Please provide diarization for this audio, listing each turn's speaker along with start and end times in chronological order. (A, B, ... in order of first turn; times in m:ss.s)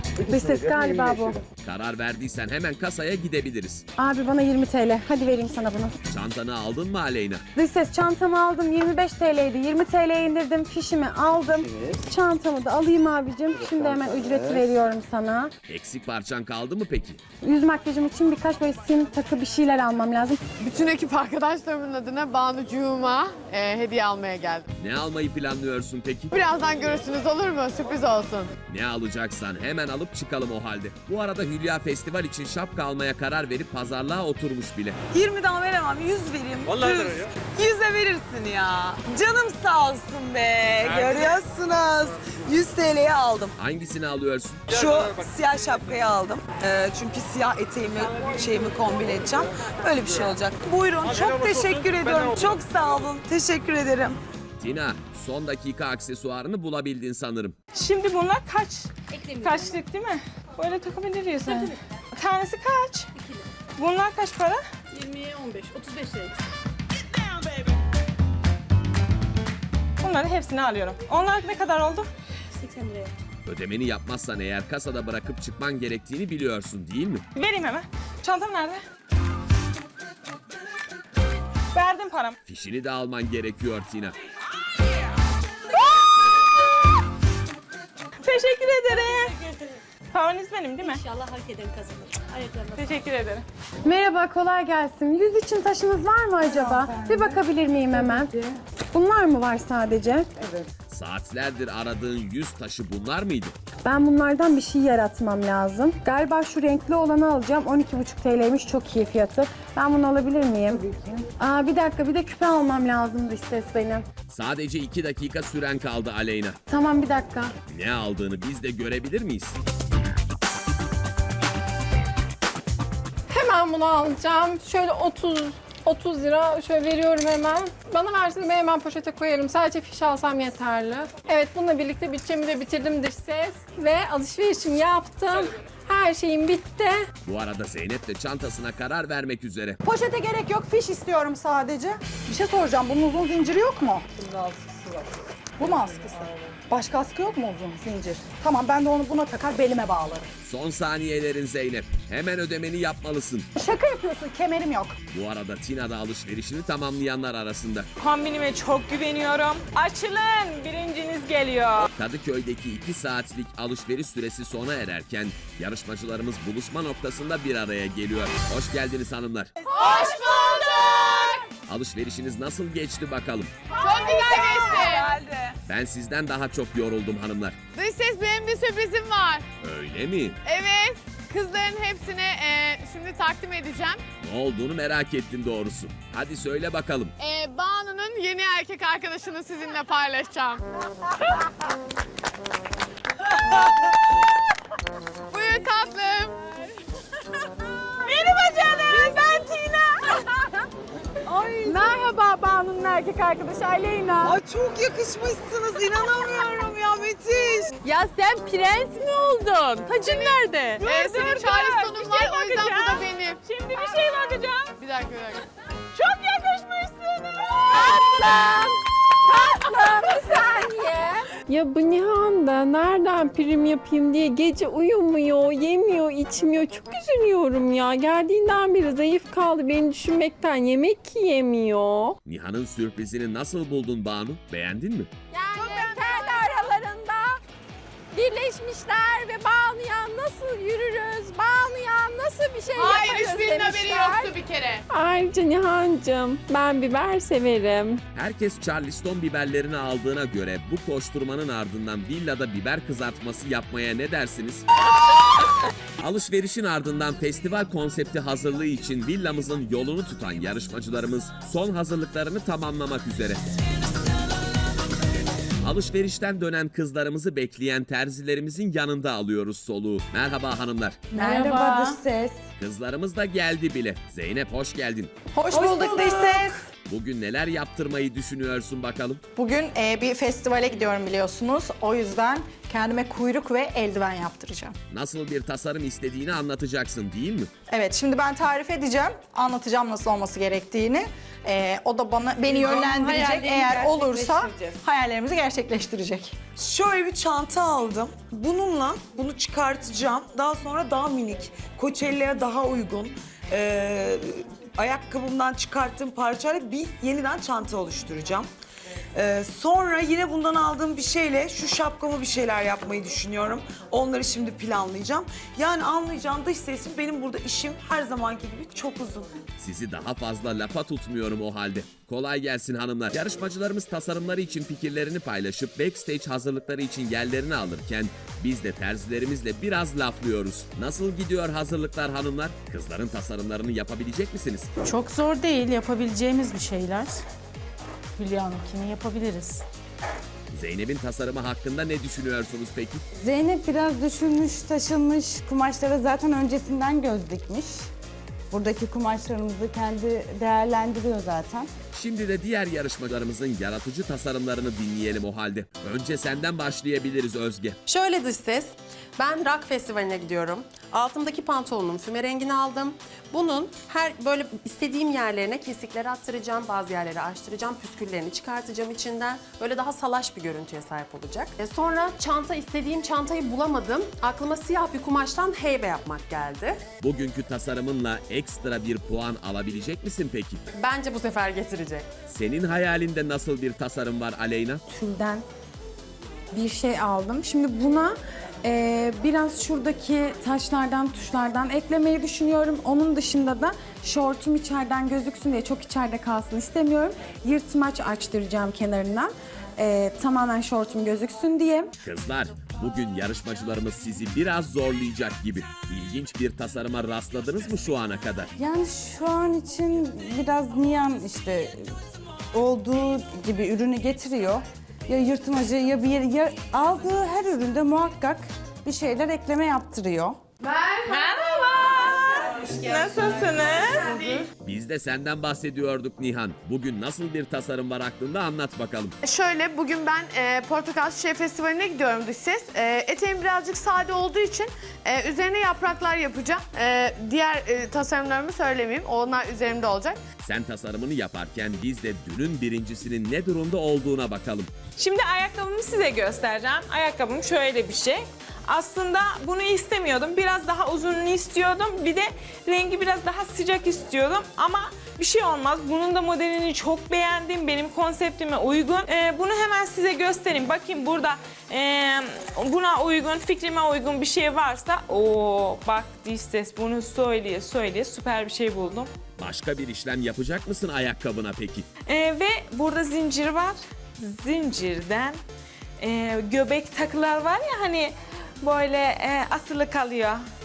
0:00.2-0:01.4 A
0:01.6-0:03.8 B
0:04.0-0:05.9 A
0:06.1-0:07.4 B
0:07.5-0:15.5 A
0:15.7-0:17.2 B
0:17.4-0:20.4 A
0:20.6-0:24.7 C
0:24.8-0:26.3 B
0:26.3-0:28.5 C
0:28.7-0:35.0 B
0:35.1-0:43.5 D
0:43.6-0:44.6 B
0:44.7-0:54.2 D
0:54.6-0:57.6 B
0:57.7-1:03.1 E
0:59.2-0:59.7 F
1:03.8-1:04.6 E
1:04.9-1:06.3 F
1:10.0-1:12.1 E
1:12.7-1:13.1 F
1:13.4-1:17.2 B
1:17.3-1:18.8 E
1:21.7-1:22.3 E
1:22.4-1:24.1 B
1:28.2-1:29.4 E
1:30.1-1:31.0 E
1:31.1-1:32.7 F
1:32.7-1:33.4 E
1:33.8-1:38.3 A
1:36.5-1:37.4 G
1:37.9-1:38.5 G
1:38.9-1:40.3 A
1:40.4-1:40.6 G
1:40.9-1:43.5 B
1:43.8-1:54.0 A
1:54.3-1:56.6 B
1:56.7-1:57.5 A
1:57.7-1:59.6 B
2:03.3-2:17.0 H
2:17.2-2:19.8 B
2:19.8-2:24.9 I
2:25.6-2:30.3 I
2:30.4-2:33.5 B
2:33.5-2:35.0 I
2:35.1-2:37.9 B
2:38.0-2:41.9 E
2:41.9-2:49.5 B
2:49.8-2:51.4 C
2:49.9-2:51.2 D
2:51.6-2:53.5 B
2:53.8-2:55.1 C
2:53.8-2:55.6 D
2:55.6-2:57.6 B
2:57.7-2:59.4 C
2:59.6-3:00.4 B
3:00.4-3:04.0 C
3:04.2-3:07.1 B
3:07.2-3:10.6 C
3:15.3-3:16.4 C
3:18.0-3:19.6 E
3:21.2-3:22.1 D
3:21.6-3:24.3 A
3:24.2-3:27.7 D
3:27.8-3:30.8 H
3:30.8-3:34.7 E
3:30.8-3:33.4 C
3:34.8-3:35.4 C
3:35.9-3:37.9 E
3:37.7-3:38.7 H
3:39.3-3:52.2 H
3:52.2-3:55.1 B
3:55.3-3:57.4 H
3:55.6-3:56.4 C
3:58.1-4:04.3 H
4:02.8-4:04.8 C
4:04.9-4:08.0 H
4:08.1-4:14.6 B
4:16.0-4:23.4 B
4:25.6-4:31.0 B
4:31.1-4:32.4 G
4:31.1-4:32.0 I
4:32.6-4:35.1 B
4:35.3-4:36.6 I
4:35.6-4:36.1 G
4:36.8-4:39.2 B
4:39.3-4:44.7 I
4:44.9-4:47.5 B
4:47.7-4:56.3 I
4:53.1-4:54.3 F
4:53.1-4:53.4 J
4:56.6-5:08.5 D
5:09.2-5:19.3 D
5:19.6-5:34.7 B
5:34.9-5:37.1 J
5:34.9-5:37.1 F
5:38.2-5:39.6 J
5:38.7-5:39.5 F
5:40.5-5:43.0 B
5:43.2-5:47.8 G
5:48.5-5:51.7 G
5:51.9-5:57.8 B
5:57.9-6:16.8 K
6:17.0-6:20.6 B
6:20.8-6:22.0 K
6:22.3-6:24.8 B
6:24.9-6:25.4 A
6:26.5-6:41.9 A
6:42.0-6:48.5 B
6:48.6-6:52.0 G
6:52.5-7:00.4 G
7:01.0-7:04.2 E
7:04.6-7:09.2 B
7:09.2-7:20.2 C
7:20.4-7:24.7 B
7:25.0-7:49.1 E
7:49.4-7:51.8 B
7:52.1-7:55.4 E
7:56.0-8:00.4 E